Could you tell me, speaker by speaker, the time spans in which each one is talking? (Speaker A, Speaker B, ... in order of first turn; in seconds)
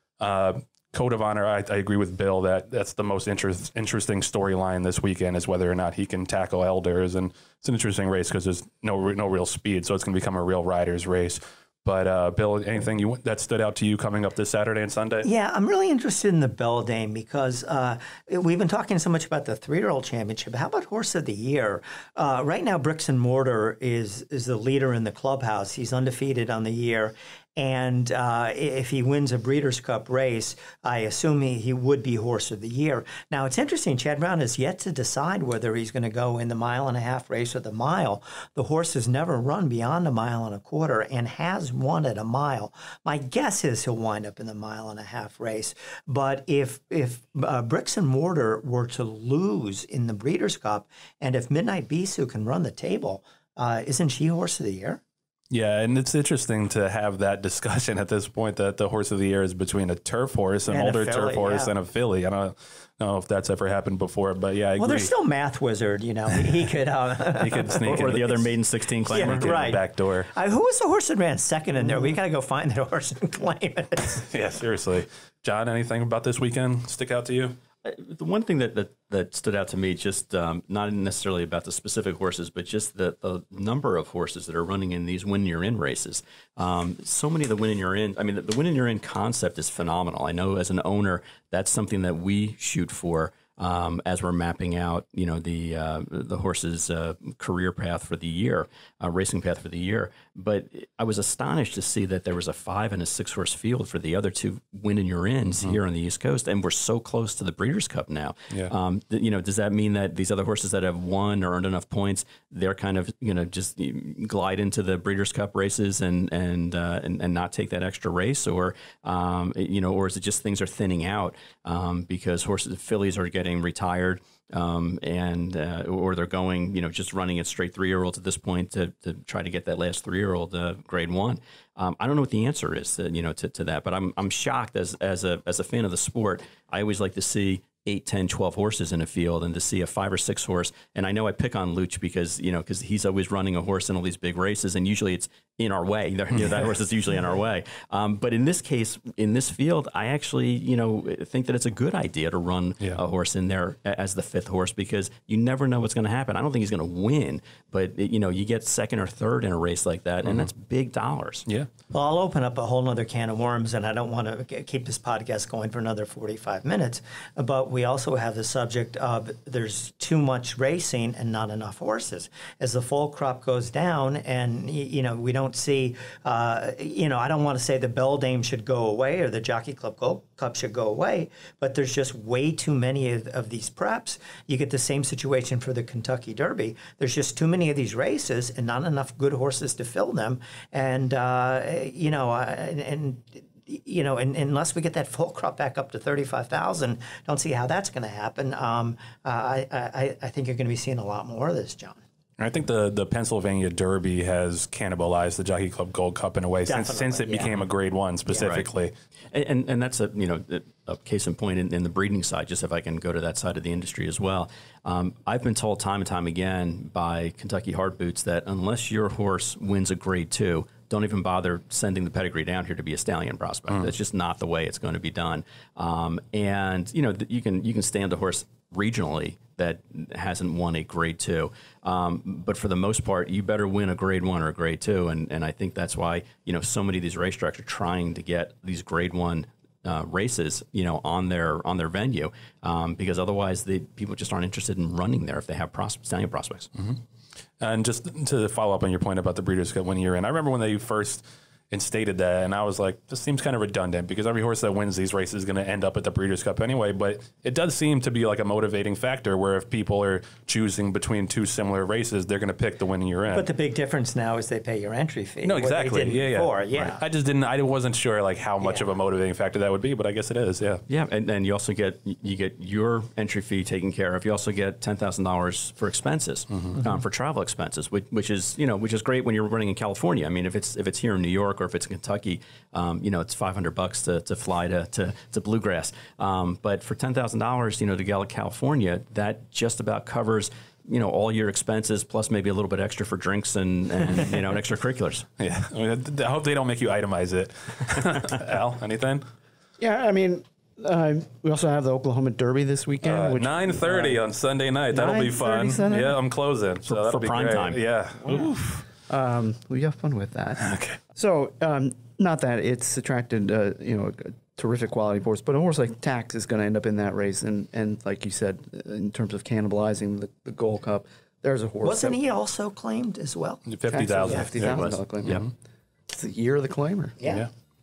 Speaker A: 0.2-15.3, 55.5-65.1, 67.3-68.5, 69.1-70.3, 74.3-77.6, 146.4-146.6, 202.4-208.9, 247.6-263.5, 265.4-270.8, 295.4-299.2, 303.0-308.9, 310.6-311.0, 323.7-325.5, 327.2-327.5
Speaker B: 15.2-55.0, 60.7-61.7, 64.8-68.4, 69.1-74.3, 161.9-202.0, 206.7-207.6, 263.3-267.0, 321.8-324.5, 327.2-327.5
Speaker C: 67.8-69.8, 77.8-161.5, 209.3-246.7, 270.9-295.3, 306.9-307.8, 324.6-325.4
Speaker D: 299.8-304.2, 304.9-306.2, 309.1-322.2, 323.9-325.5, 326.1-327.2